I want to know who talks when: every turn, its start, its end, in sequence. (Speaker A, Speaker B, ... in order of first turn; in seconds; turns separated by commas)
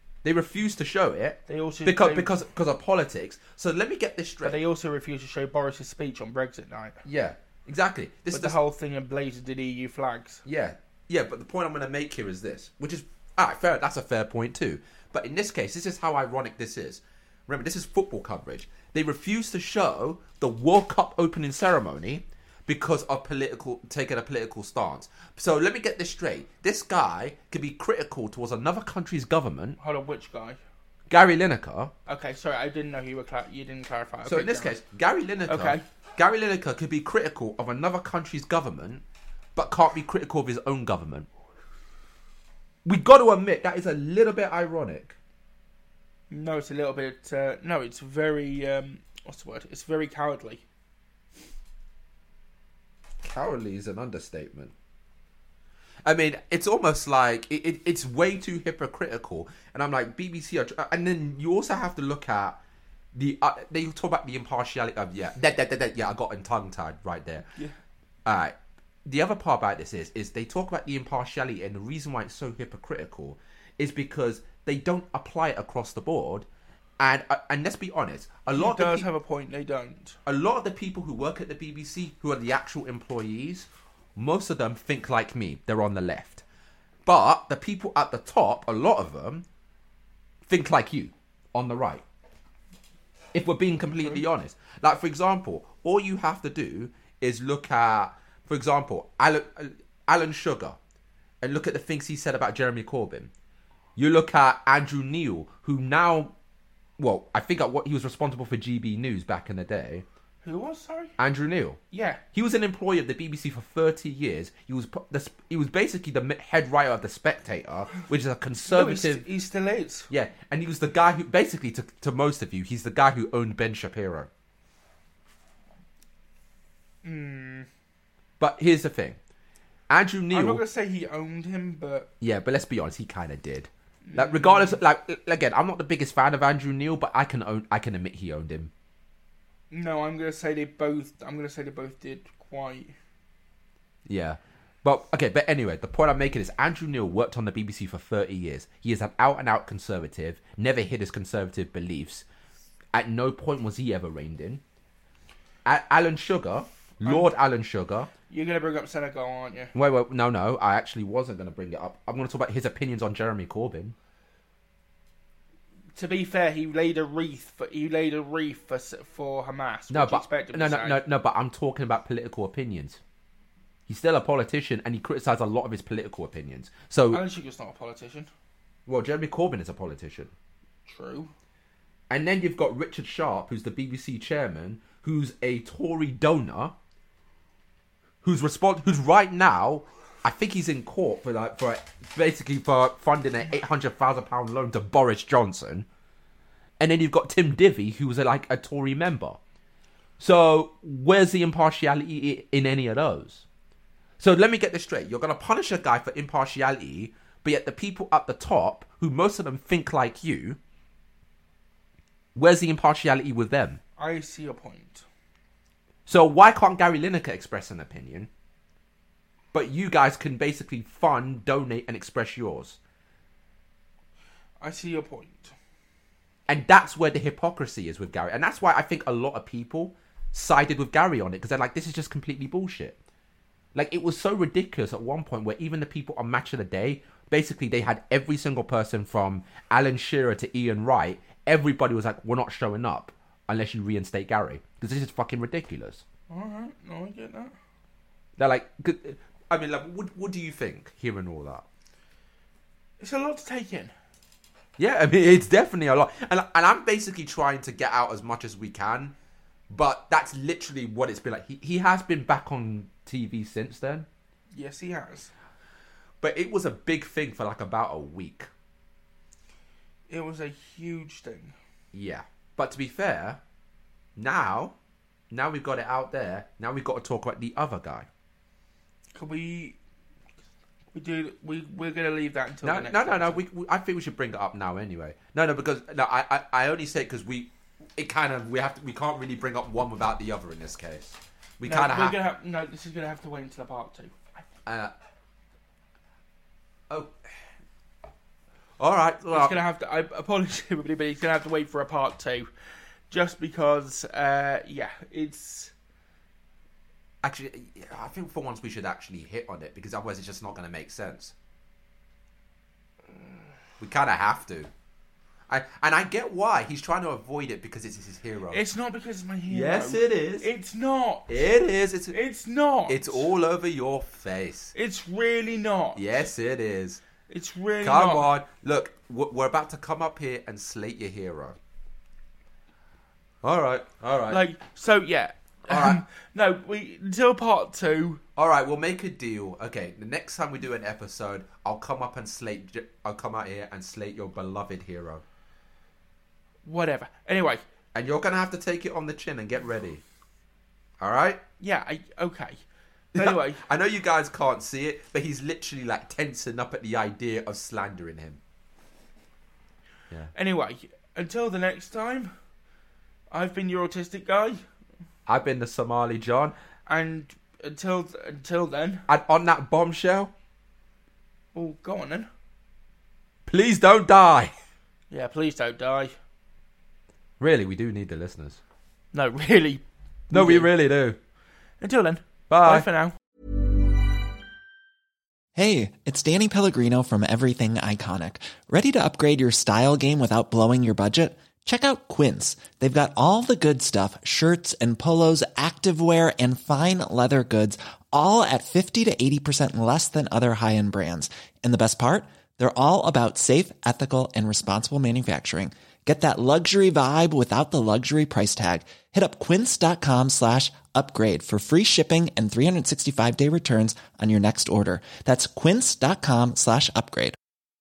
Speaker A: 0.2-4.6, Speaker B: 1.5-2.3, Speaker B: 4.4-7.0, Speaker A: 7.0-8.6, Speaker B: 8.3-10.4, Speaker A: 10.4-29.8, Speaker B: 29.8-30.6, Speaker A: 31.1-31.9, Speaker B: 32.1-34.8, Speaker A: 34.2-39.0, Speaker B: 35.5-35.8, Speaker A: 39.5-41.3, Speaker A: 42.9-45.1, Speaker B: 46.3-50.6, Speaker A: 53.2-54.7, Speaker A: 56.0-62.6, Speaker A: 63.1-67.5, Speaker A: 68.2-68.5, Speaker A: 69.0-76.5, Speaker A: 77.0-79.1, Speaker B: 78.6-80.2, Speaker A: 80.3-86.4, Speaker A: 87.1-89.5, Speaker A: 90.5-92.0, Speaker A: 93.3-100.8, Speaker B: 94.0-94.2, Speaker A: 101.4-103.3, Speaker A: 104.0-106.3, Speaker A: 107.0-110.0, Speaker B: 110.4-111.1, Speaker A: 111.2-111.8, Speaker B: 111.9-112.2, Speaker A: 112.3-119.3, Speaker B: 118.7-120.1, Speaker A: 120.1-124.3, Speaker B: 127.0-127.7, Speaker A: 128.4-129.2, Speaker A: 129.9-130.6, Speaker B: 130.3-132.1, Speaker A: 132.2-138.7, Speaker B: 134.1-134.8, Speaker B: 139.7-142.9, Speaker A: 144.1-152.2, Speaker A: 152.9-154.6, Speaker A: 155.7-158.1, Speaker B: 157.0-157.3, Speaker B: 158.3-159.7, Speaker A: 159.7-163.9, Speaker B: 166.0-171.0, Speaker A: 169.9-173.0, Speaker A: 173.9-177.2, Speaker B: 177.1-178.3, Speaker A: 178.9-180.3, Speaker B: 180.9-181.3, Speaker A: 182.1-186.8, Speaker A: 188.2-195.9, Speaker A: 196.8-199.4, Speaker A: 200.2-203.5, Speaker A: 204.2-210.6, Speaker A: 212.3-213.8, Speaker B: 214.0-215.1, Speaker A: 216.1-218.3, Speaker A: 219.5-222.8, Speaker B: 224.6-225.6, Speaker A: 226.5-233.0, Speaker A: 233.8-246.0, Speaker B: 246.3-247.5, Speaker A: 248.4-251.7, Speaker B: 253.0-253.9, Speaker A: 254.8-259.1, Speaker A: 259.7-264.1, Speaker B: 264.5-265.3, Speaker A: 266.2-268.5, Speaker B: 270.1-271.6, Speaker A: 271.9-273.4, Speaker A: 274.2-274.8, Speaker A: 275.3-278.1, Speaker B: 279.1-279.8, Speaker B: 280.9-283.4, Speaker A: 282.6-292.2, Speaker B: 291.6-294.4, Speaker A: 294.7-294.9, Speaker A: 298.8-299.6, Speaker B: 299.3-302.5, Speaker B: 303.1-305.7, Speaker A: 307.2-311.3, Speaker A: 313.8-314.7, Speaker A: 315.5-318.6, Speaker B: 318.5-321.4, Speaker A: 319.5-320.5, Speaker A: 321.3-322.2, Speaker B: 322.1-323.3, Speaker A: 322.9-324.7, Speaker B: 324.7-326.2, Speaker A: 326.0-327.0, Speaker B: 327.3-328.3, Speaker A: 327.8-331.6, Speaker A: 333.4-334.4, Speaker B: 334.3-338.2, Speaker A: 335.7-336.0, Speaker A: 338.4-345.2, Speaker B: 346.6-347.6, Speaker A: 347.9-350.0, Speaker A: 351.0-351.4, Speaker B: 351.6-352.6, Speaker A: 353.1-358.4, Speaker B: 353.1-353.6, Speaker B: 360.4-362.3, Speaker B: 363.3-364.6, Speaker A: 365.3-366.6, Speaker B: 366.9-369.1, Speaker A: 369.1-370.3, Speaker B: 371.5-372.3, Speaker A: 373.5-374.5, Speaker B: 375.1-376.1, Speaker A: 377.4-378.6, Speaker B: 379.1-380.7, Speaker A: 380.3-381.2, Speaker B: 381.8-383.2, Speaker A: 382.5-382.9, Speaker C: 385.6-417.4